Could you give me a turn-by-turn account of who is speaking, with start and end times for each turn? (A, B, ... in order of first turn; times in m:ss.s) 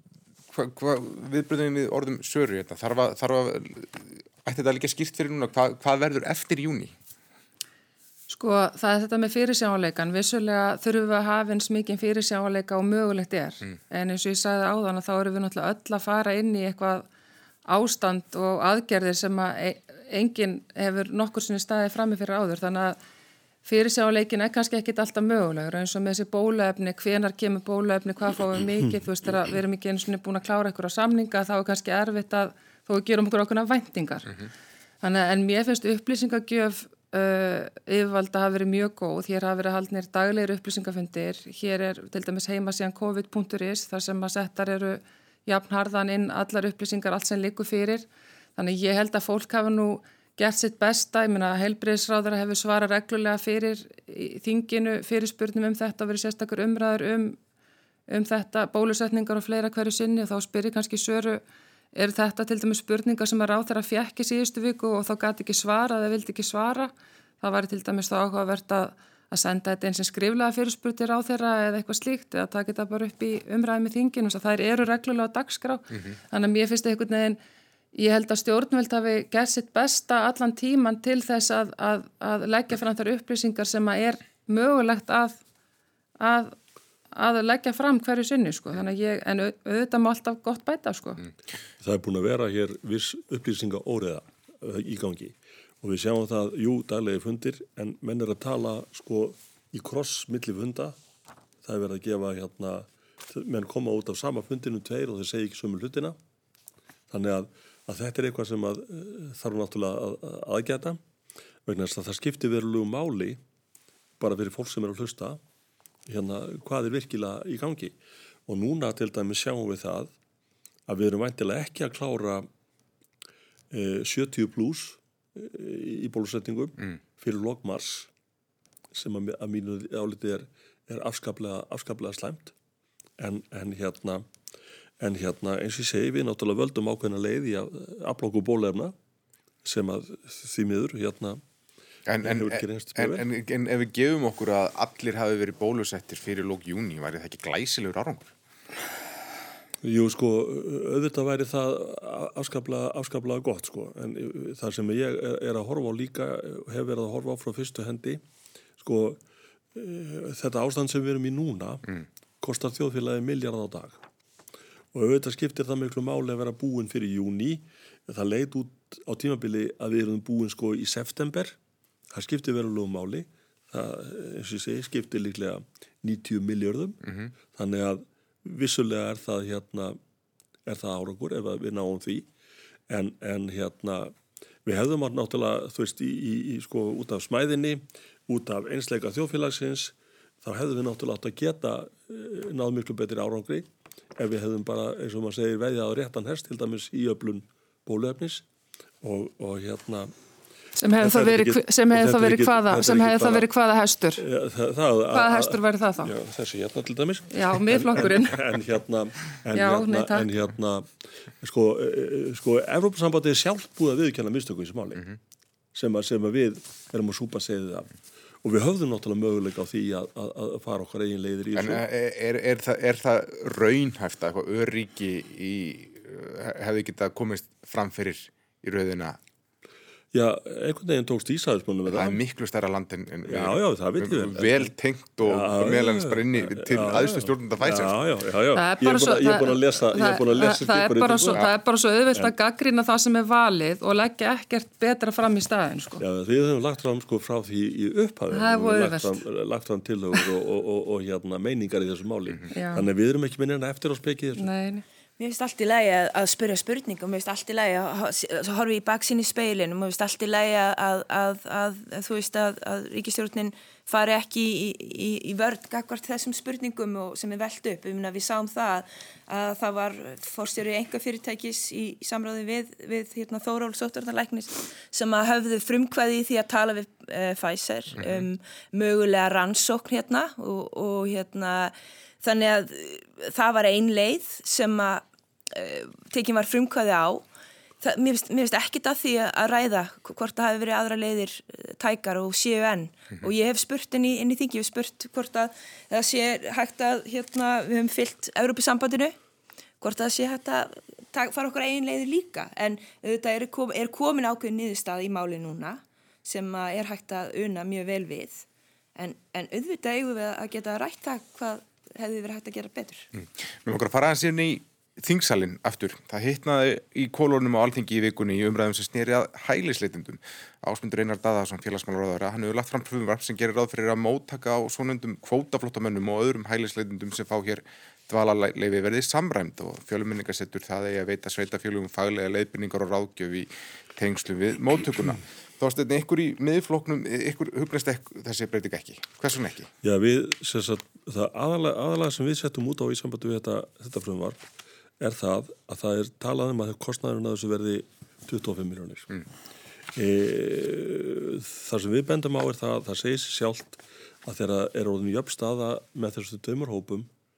0:00.5-0:06.9 A
0:08.3-0:17.1 B
0:17.6-0:23.0 B
0:23.6-0:34.3 B
0:35.0-0:57.4 B
0:58.1-1:01.4 B
1:01.9-1:17.4 B
1:17.9-1:25.4 B
1:26.2-1:26.6 B
1:27.1-1:31.2 B
1:31.8-1:41.0 C
1:41.6-1:46.2 C
1:47.1-1:51.0 C
1:51.6-1:53.4 C
1:54.2-1:55.4 C
1:56.1-1:57.9 C
1:58.5-2:00.1 C
2:00.9-2:02.5 C
2:03.7-2:08.1 C
2:08.9-2:12.5 C
2:13.2-2:14.2 C
2:15.0-2:18.9 C
2:19.6-2:21.4 C
2:22.0-2:28.3 A
2:22.2-2:23.2 C
2:29.8-2:38.2 C
2:38.8-2:39.2 C
2:39.7-2:41.8 C
2:42.4-2:44.0 C
2:44.9-2:51.6 C
2:52.1-2:57.0 C
2:57.5-3:00.0 C
3:00.6-3:02.3 C
3:02.9-3:04.1 C
3:04.6-3:18.4 C
3:19.0-3:20.1 C
3:20.8-3:24.2 B
3:21.0-3:23.5 C
3:24.2-3:35.1 C
3:25.1-3:26.1 B
3:27.3-3:28.4 B
3:29.5-3:30.3 B
3:35.7-3:37.9 C
3:38.4-3:41.8 C
3:41.6-3:49.2 A
3:50.1-3:52.2 C
3:51.9-3:58.0 A
3:53.2-4:01.5 C
3:58.5-4:06.0 B
4:06.0-4:14.5 C
4:08.3-4:09.2 B
4:12.5-4:12.8 B
4:14.4-4:14.8 B
4:15.2-4:47.2 D
4:38.0-4:38.2 A
4:47.8-4:59.1 D
4:59.8-5:08.4 D
5:09.0-5:13.1 D
5:13.2-5:39.7 A
5:39.8-5:44.4 C
5:45.0-5:49.2 C
5:49.9-5:57.1 C